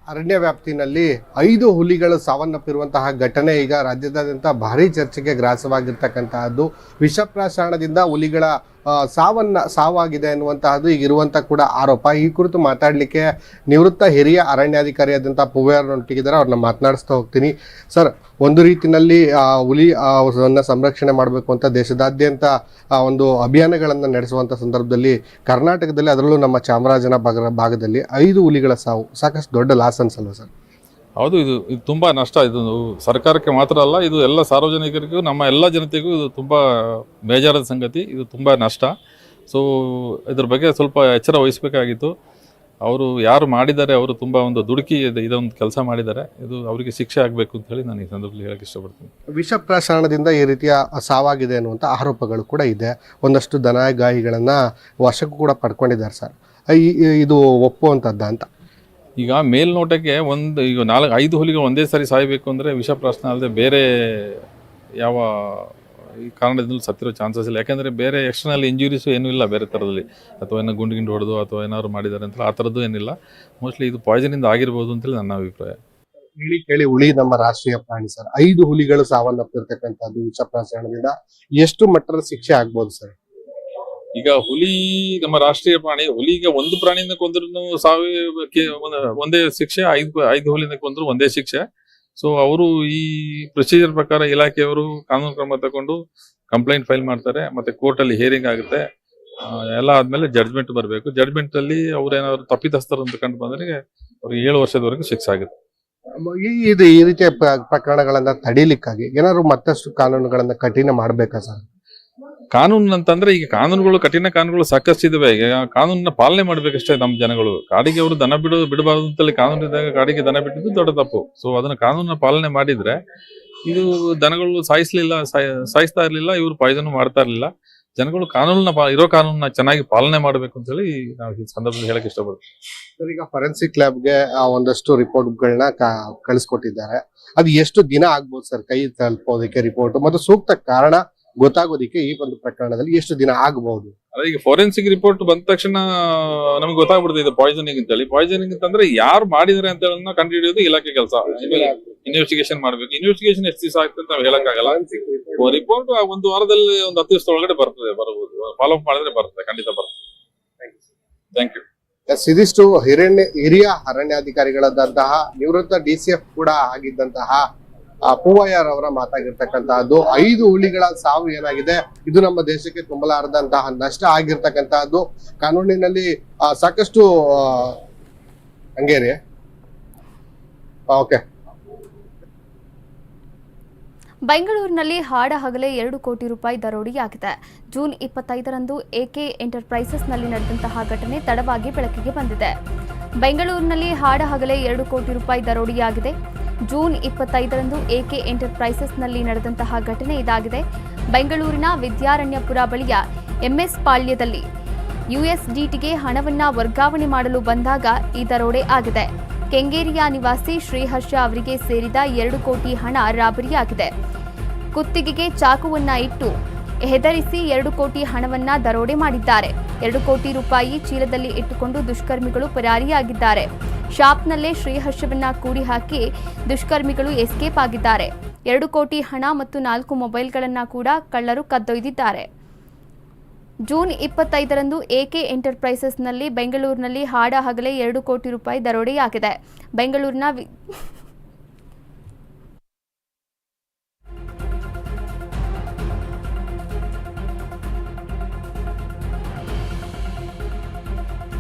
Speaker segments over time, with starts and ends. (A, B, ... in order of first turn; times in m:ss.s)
0:00.1-0:30.5 A
0:31.2-0:36.6 B
0:37.3-0:38.9 B
0:39.5-0:42.1 B
0:42.9-0:49.1 B
0:49.3-0:58.5 A
0:59.2-1:04.4 B
1:05.0-1:05.7 B
1:06.4-1:15.8 B
1:16.4-1:23.1 A
1:24.2-1:31.6 B
1:32.2-1:36.0 B
1:36.5-1:38.8 B
1:39.8-1:45.5 B
1:46.2-1:51.6 A
1:52.5-2:03.0 B
2:03.7-2:12.4 B
2:13.0-2:23.9 A
2:24.2-2:34.9 B
2:31.5-2:31.9 A
2:34.6-2:35.4 A
2:35.4-2:39.9 B
2:41.4-2:41.6 B
2:42.1-2:47.4 A
2:48.1-2:57.8 A
2:58.8-2:59.2 A
3:00.9-3:01.2 A
3:04.3-3:12.5 C
3:13.2-3:16.2 C
3:16.7-3:24.4 C
3:25.1-3:33.9 C
3:34.8-3:36.3 C
3:36.8-3:52.3 C
3:53.7-4:00.4 C